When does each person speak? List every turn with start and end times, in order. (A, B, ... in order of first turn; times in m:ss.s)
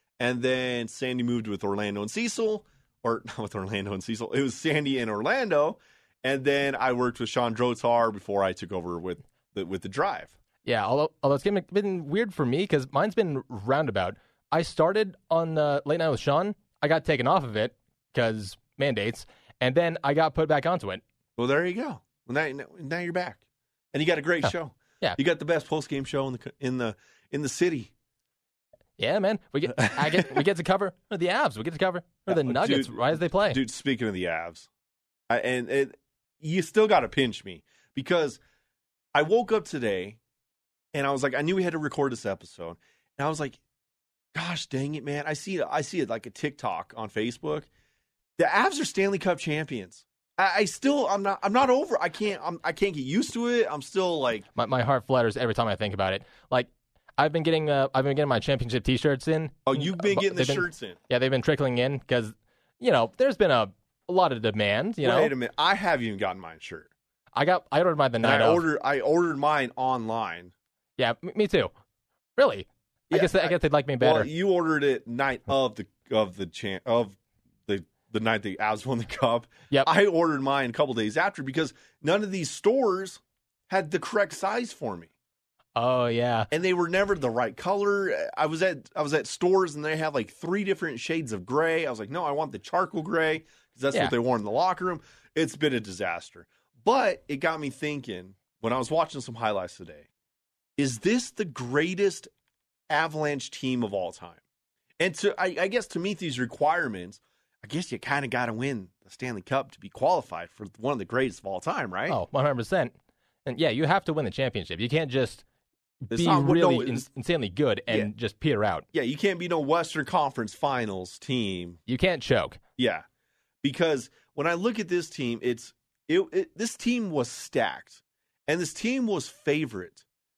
0:00.2-0:10.3 A
0:10.6-0:21.0 B
0:21.4-0:27.9 A
0:29.0-0:33.6 B
0:29.7-0:30.4 A
0:32.3-0:34.7 A
0:35.3-0:38.4 A
0:39.1-0:40.2 A
0:40.9-0:43.6 A
0:44.3-0:47.7 A
0:48.4-0:54.5 A
0:54.5-1:05.3 B
0:59.6-1:01.0 A
1:05.0-1:06.9 A
1:07.3-1:08.6 B
1:08.2-1:10.5 A
1:11.0-1:11.7 B
1:12.4-1:14.3 B
1:13.1-1:25.1 A
1:25.8-1:26.5 B
1:26.5-1:40.1 A
1:40.8-1:42.3 A
1:42.9-1:44.4 A
1:45.0-1:52.2 A
1:52.1-1:52.9 B
1:53.4-1:55.4 B
1:56.1-1:58.8 B
1:56.1-1:57.1 A
1:58.9-2:01.8 A
2:01.9-2:02.6 B
2:02.8-2:03.0 A
2:03.6-2:10.0 A